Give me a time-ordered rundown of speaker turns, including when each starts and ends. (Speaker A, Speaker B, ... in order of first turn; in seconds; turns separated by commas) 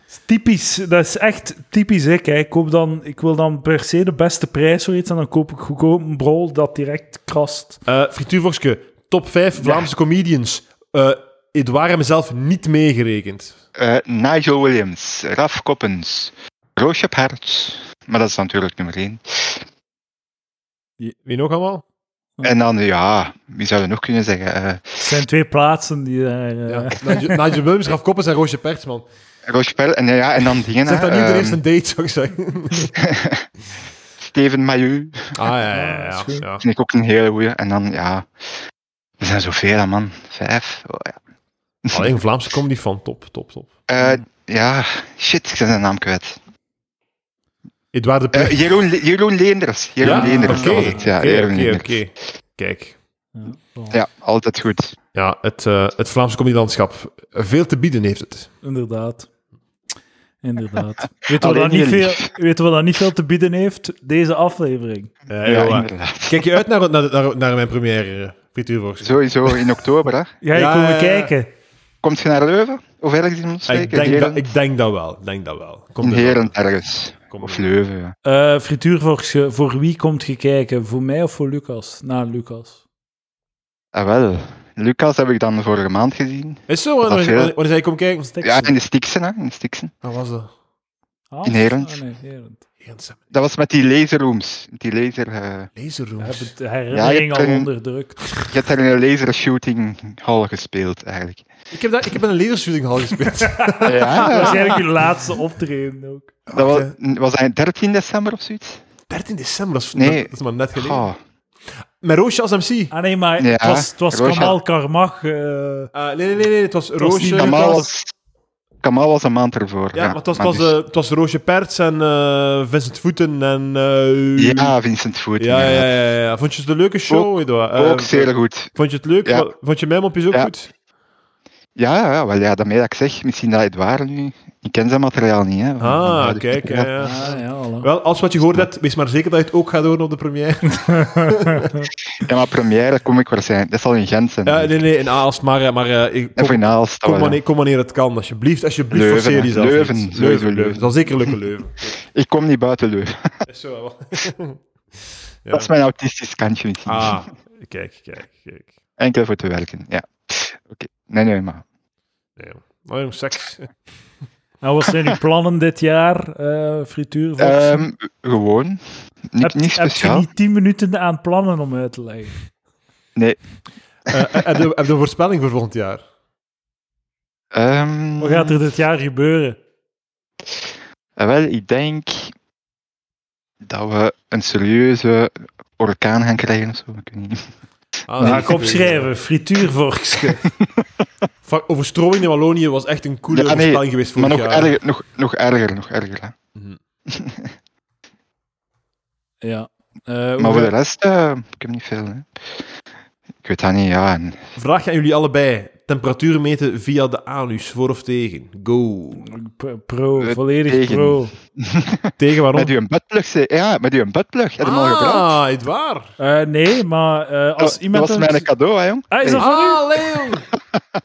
Speaker A: 0.1-7.8, Speaker B: 7.9-13.6, Speaker C: 13.8-19.6, Speaker B: 21.3-21.8, Speaker C: 22.4-25.0, Speaker A: 25.0-27.0, Speaker B: 26.7-29.1, Speaker C: 29.4-31.6, Speaker B: 30.4-33.0, Speaker C: 33.0-33.5, Speaker C: 34.2-35.4, Speaker B: 35.4-36.6, Speaker A: 35.7-36.5, Speaker C: 36.6-38.3, Speaker C: 39.2-41.2, Speaker C: 41.9-42.1, Speaker B: 41.9-43.7, Speaker C: 43.9-46.4, Speaker B: 47.9-48.9, Speaker C: 48.3-52.0, Speaker B: 50.0-53.0, Speaker A: 50.0-51.1, Speaker A: 53.3-54.0, Speaker C: 53.9-55.0, Speaker B: 55.1-58.5, Speaker A: 58.6-59.3, Speaker A: 60.4-65.1, Speaker C: 61.3-62.3, Speaker B: 65.3-69.8, Speaker C: 65.4-66.5, Speaker C: 69.0-70.3, Speaker A: 70.4-71.5, Speaker B: 70.5-71.3, Speaker C: 72.0-74.5, Speaker B: 73.7-76.5, Speaker C: 76.0-78.1, Speaker B: 77.3-77.7, Speaker A: 78.2-82.8, Speaker C: 83.9-87.5, Speaker B: 86.7-88.4, Speaker A: 88.3-88.8, Speaker C: 88.4-89.9, Speaker B: 90.0-90.5, Speaker A: 91.3-92.6, Speaker C: 91.4-92.0, Speaker B: 92.8-93.2, Speaker C: 93.3-95.7, Speaker B: 95.8-96.5, Speaker A: 96.2-98.3, Speaker C: 96.9-97.7, Speaker C: 98.4-101.5, Speaker B: 101.7-104.8, Speaker A: 103.4-106.3, Speaker C: 103.8-104.8, Speaker B: 106.5-106.9, Speaker C: 106.5-108.8, Speaker B: 109.1-111.0, Speaker C: 110.0-111.2, Speaker B: 112.0-112.9, Speaker A: 112.9-115.9, Speaker C: 113.4-114.5, Speaker B: 115.9-117.9, Speaker A: 117.0-117.9, Speaker C: 117.3-118.1, Speaker C: 118.8-120.7, Speaker B: 119.9-124.8, Speaker C: 124.4-125.9, Speaker B: 125.4-130.7, Speaker C: 127.1-129.5, Speaker C: 131.8-136.9, Speaker B: 135.8-141.7, Speaker A: 137.0-137.9, Speaker A: 140.8-141.9, Speaker C: 142.1-144.8, Speaker B: 144.4-151.9, Speaker C: 146.4-147.4, Speaker C: 148.9-151.3, Speaker C: 152.1-153.4, Speaker B: 153.5-155.7, Speaker C: 155.5-157.2, Speaker B: 156.9-158.7, Speaker C: 159.0-161.6, Speaker B: 162.4-163.8, Speaker A: 164.6-167.9, Speaker C: 167.4-168.8, Speaker C: 169.3-170.3, Speaker A: 169.4-172.4, Speaker B: 174.1-176.0, Speaker C: 177.5-178.6, Speaker A: 178.2-179.6, Speaker C: 181.2-182.3, Speaker C: 183.6-187.5, Speaker B: 188.1-189.1, Speaker A: 188.2-190.5, Speaker C: 188.2-188.4, Speaker B: 191.4-194.7, Speaker C: 193.3-196.3, Speaker C: 197.1-197.5, Speaker A: 199.4-200.7, Speaker C: 200.4-202.3, Speaker C: 203.4-204.4, Speaker B: 204.6-209.3, Speaker A: 209.2-211.3, Speaker C: 210.2-215.3, Speaker B: 212.2-212.7, Speaker B: 214.6-216.1, Speaker A: 216.2-218.5, Speaker C: 217.6-220.8, Speaker A: 219.1-219.8, Speaker B: 219.4-220.4